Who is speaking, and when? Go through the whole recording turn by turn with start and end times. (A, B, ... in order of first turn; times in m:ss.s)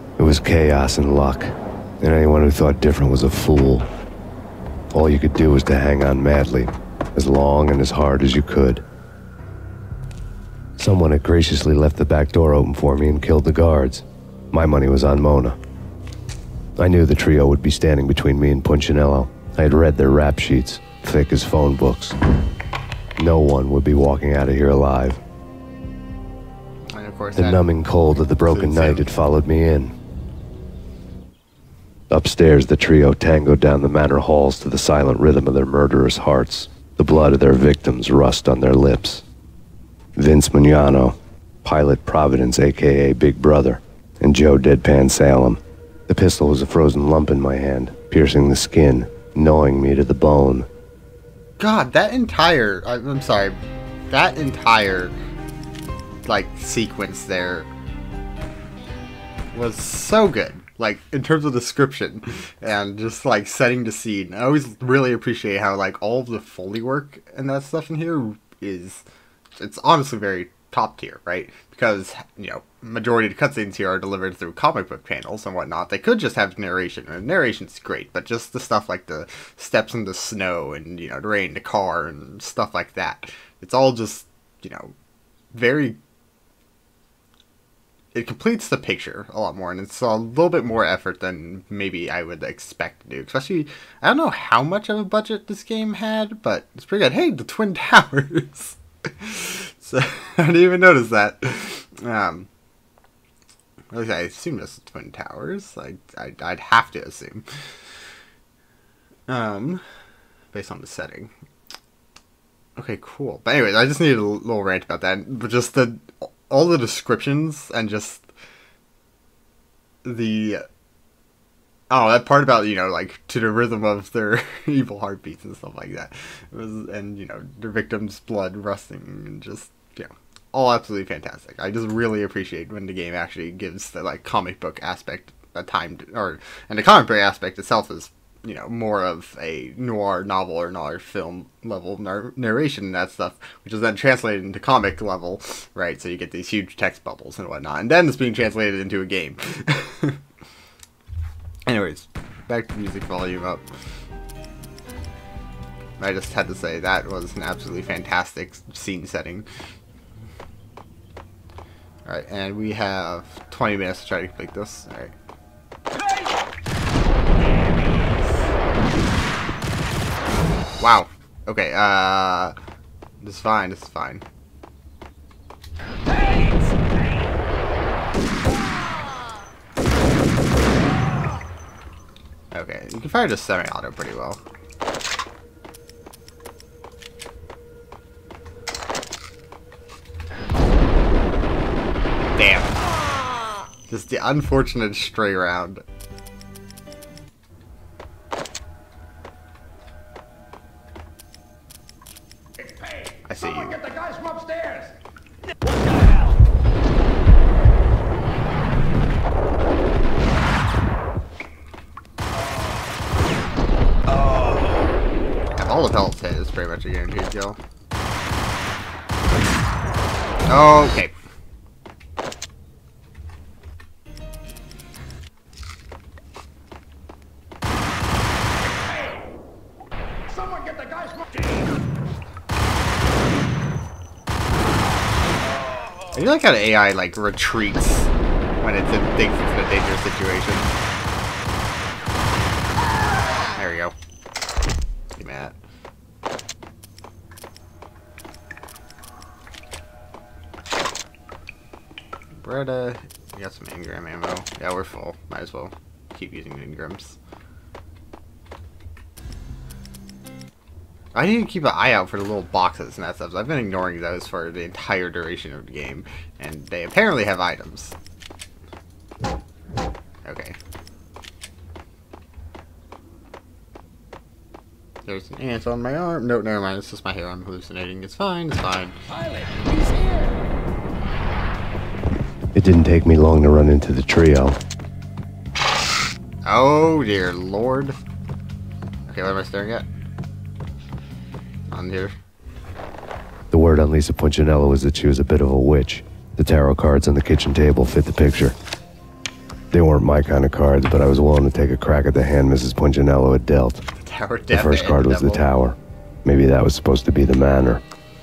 0:00.2-0:03.9 A
0:04.9-0:08.8 A
0:10.8-0:15.6 A
0:16.8-0:22.1 A
0:23.2-0:25.2 A
0:26.9-0:27.8 B
0:27.4-0:29.9 A
0:28.3-0:29.1 B
0:32.1-0:39.2 A
0:40.2-0:50.7 A
0:51.6-0:53.6 B
0:54.1-0:55.1 B
0:56.2-0:57.7 B
0:59.5-1:09.0 B
1:09.6-1:24.9 B
1:25.5-1:26.0 B
1:28.1-1:42.5 B
1:43.9-1:47.4 B
1:49.3-1:49.8 B
1:50.5-1:51.3 B
1:52.8-1:58.3 B
2:00.0-2:00.6 B
2:01.9-2:30.2 B
2:31.7-2:33.6 B
2:36.0-2:39.4 B
2:42.0-2:45.1 B
2:47.5-2:48.4 C
2:50.8-2:52.5 B
2:53.2-2:54.2 B
2:56.0-2:57.0 C
3:02.5-3:04.4 B
3:12.4-3:12.8 B
3:13.9-3:15.8 B
3:22.6-3:25.0 C
3:23.3-3:23.8 B
3:25.6-3:26.4 C
3:35.6-3:37.6 B
3:40.5-3:41.1 B
3:50.3-3:51.8 C
3:56.1-3:58.1 B
3:58.6-4:00.7 B
4:03.6-4:03.9 B
4:05.2-4:05.5 B
4:12.4-4:17.2 B
4:21.1-4:28.0 B
4:30.2-4:30.6 B
4:35.0-4:39.0 B
4:39.1-4:40.4 C
4:42.5-4:44.6 A
4:46.4-4:48.0 B
4:49.1-4:49.8 B
4:51.7-4:52.1 B
4:53.5-4:58.5 A
4:59.7-5:03.8 A
5:04.0-5:05.4 B
5:04.5-5:07.8 A